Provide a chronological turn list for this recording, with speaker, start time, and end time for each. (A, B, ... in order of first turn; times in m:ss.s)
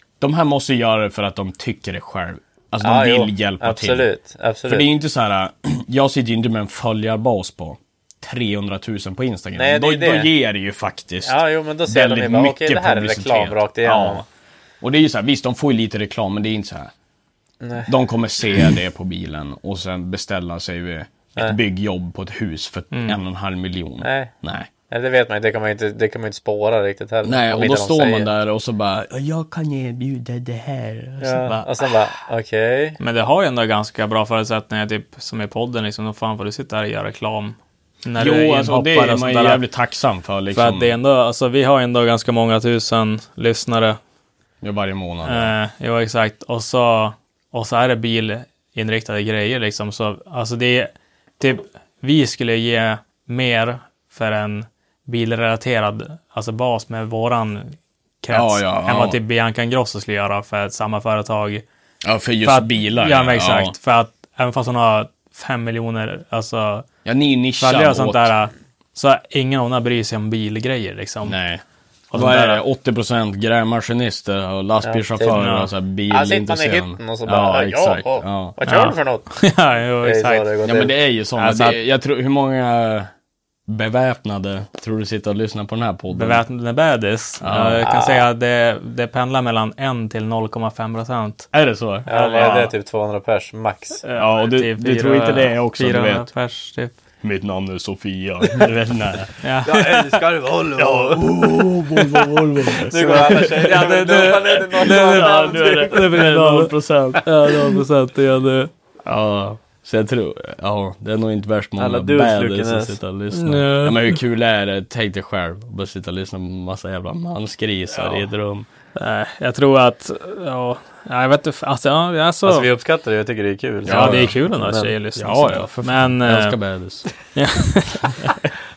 0:00.2-0:04.1 A
0:02.8-0:04.9 B
0:04.7-0:14.2 A
0:09.6-0:10.3 B
0:11.2-0:14.2 B
0:14.8-0:16.9 A
0:17.6-0:17.9 B
0:17.9-0:24.7 A
0:22.9-0:23.2 C
0:24.0-0:24.3 B
0:24.9-0:28.3 B
0:27.2-0:32.0 A
0:31.2-0:33.0 B
0:33.0-0:39.6 C
0:38.2-0:40.9 A
0:40.5-0:44.0 C
0:44.6-0:45.5 A
0:45.2-1:01.6 C
0:58.3-0:59.2 A
1:02.0-1:03.8 A
1:02.4-1:06.9 C
1:07.0-1:08.3 A
1:07.6-1:11.4 C
1:11.2-1:18.6 A
1:12.1-1:12.6 C
1:14.8-1:15.5 B
1:15.3-1:15.7 C
1:16.1-1:19.4 B
1:18.7-1:20.5 C
1:20.0-1:20.9 B
1:20.6-1:23.1 A
1:21.4-1:21.8 C
1:23.7-1:26.4 A
1:26.1-1:31.5 C
1:27.4-1:27.8 A
1:27.8-1:28.3 B
1:31.5-1:32.6 A
1:32.1-1:32.7 C
1:32.1-1:34.0 B
1:34.0-1:37.0 C
1:34.2-1:36.3 A
1:37.2-1:39.3 A
1:39.4-1:40.2 C
1:39.6-1:41.5 B
1:40.8-1:47.8 A
1:42.8-1:46.3 B
1:43.6-1:48.7 C
1:49.0-1:58.7 A
1:51.8-1:53.0 B
1:53.3-1:54.2 C
1:59.0-2:02.7 C
2:02.4-2:04.9 B
2:03.9-2:04.4 A
2:03.9-2:06.6 C
2:05.2-2:07.1 A
2:07.4-2:08.3 C